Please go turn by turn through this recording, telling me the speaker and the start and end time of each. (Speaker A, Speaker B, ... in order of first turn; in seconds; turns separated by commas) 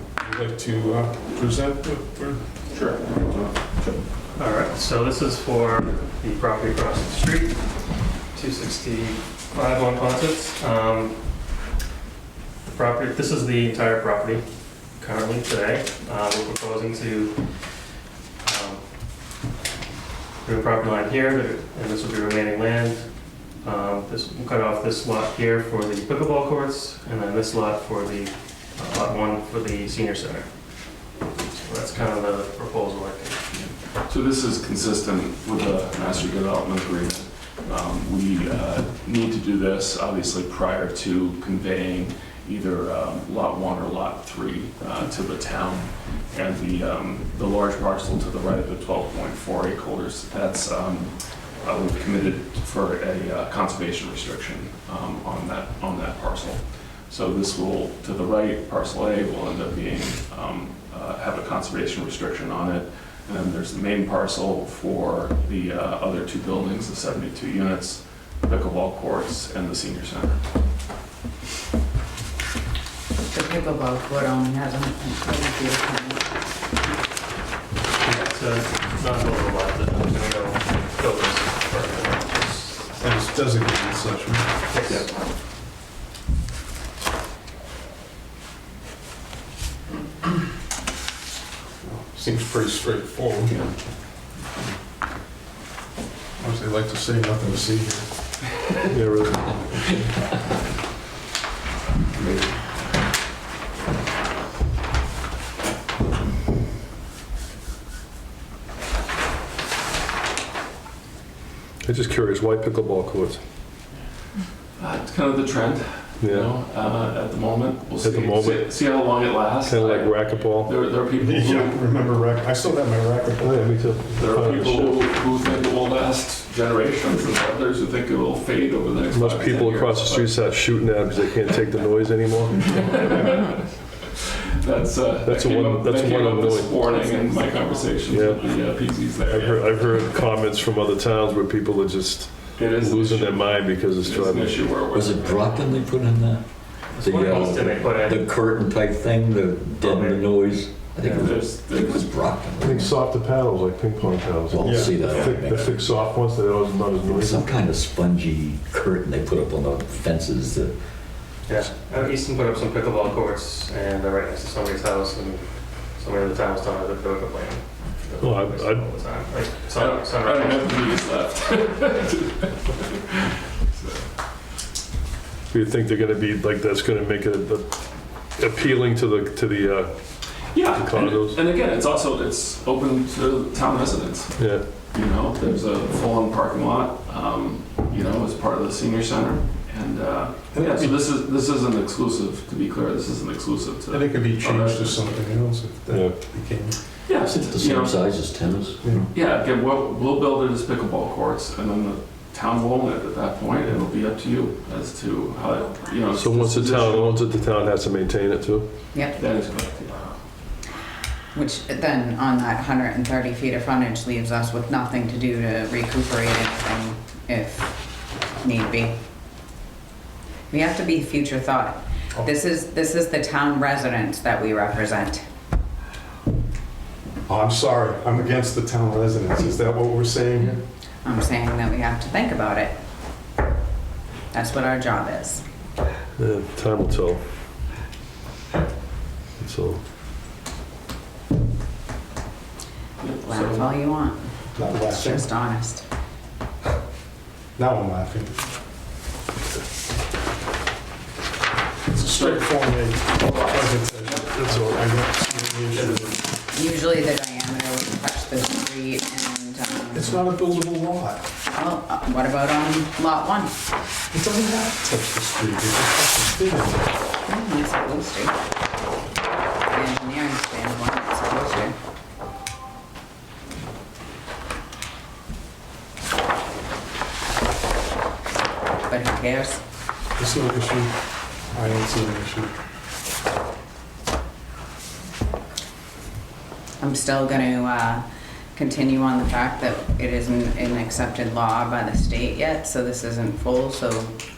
Speaker A: 0.2-2.4, Speaker B: 2.7-3.5, Speaker C: 4.3-7.6, Speaker C: 8.3-11.2, Speaker C: 12.6-14.4, Speaker C: 15.0-17.4, Speaker C: 18.4-18.8, Speaker C: 20.4-23.1, Speaker C: 23.6-30.5, Speaker C: 31.4-33.5, Speaker B: 33.5-70.4, Speaker D: 73.3-76.3, Speaker C: 78.0-82.9, Speaker A: 83.0-84.9, Speaker C: 84.7-85.1, Speaker A: 91.8-93.6, Speaker A: 96.4-98.5, Speaker E: 98.9-99.6, Speaker B: 102.1-102.7, Speaker E: 111.8-113.4, Speaker B: 114.8-122.0, Speaker E: 116.2-116.5, Speaker E: 118.0-118.8, Speaker E: 119.6-120.8, Speaker A: 121.2-123.9, Speaker E: 123.4-125.1, Speaker B: 124.1-130.4, Speaker E: 129.1-132.9, Speaker B: 132.5-140.0, Speaker E: 135.2-136.9, Speaker E: 138.1-138.4, Speaker E: 139.2-144.6, Speaker B: 142.6-145.6, Speaker F: 144.9-153.0, Speaker C: 146.9-148.2, Speaker C: 149.8-150.2, Speaker B: 151.0-152.2, Speaker E: 152.6-157.6, Speaker F: 154.5-155.8, Speaker A: 154.7-154.9, Speaker B: 154.9-155.3, Speaker F: 157.0-160.7, Speaker C: 161.5-170.8, Speaker E: 168.2-168.9, Speaker B: 169.8-174.1, Speaker E: 175.5-181.4, Speaker B: 180.4-195.1, Speaker E: 184.4-184.7, Speaker A: 190.5-191.0, Speaker A: 193.9-196.8, Speaker E: 195.9-196.2, Speaker B: 197.1-198.2, Speaker F: 197.3-199.1, Speaker B: 199.1-207.2, Speaker E: 206.2-208.7, Speaker D: 208.9-209.2, Speaker B: 209.1-210.1, Speaker D: 211.3-217.8, Speaker D: 218.4-219.0, Speaker D: 220.5-225.2, Speaker A: 227.3-230.6, Speaker D: 231.0-232.7, Speaker D: 234.3-235.4, Speaker E: 236.2-237.2, Speaker E: 239.4-239.8, Speaker B: 243.0-243.7, Speaker D: 243.2-245.8, Speaker A: 244.5-245.3, Speaker A: 247.6-248.4, Speaker A: 251.9-256.2, Speaker B: 252.1-252.5, Speaker B: 253.2-254.2, Speaker E: 254.3-254.8, Speaker B: 255.7-256.1, Speaker D: 256.5-260.2, Speaker A: 259.9-261.2, Speaker D: 261.5-263.5, Speaker A: 264.1-266.9, Speaker D: 267.2-268.3, Speaker D: 269.7-271.8, Speaker D: 278.9-279.6, Speaker A: 280.2-280.9, Speaker A: 281.5-282.5, Speaker D: 286.8-288.0, Speaker D: 288.5-294.1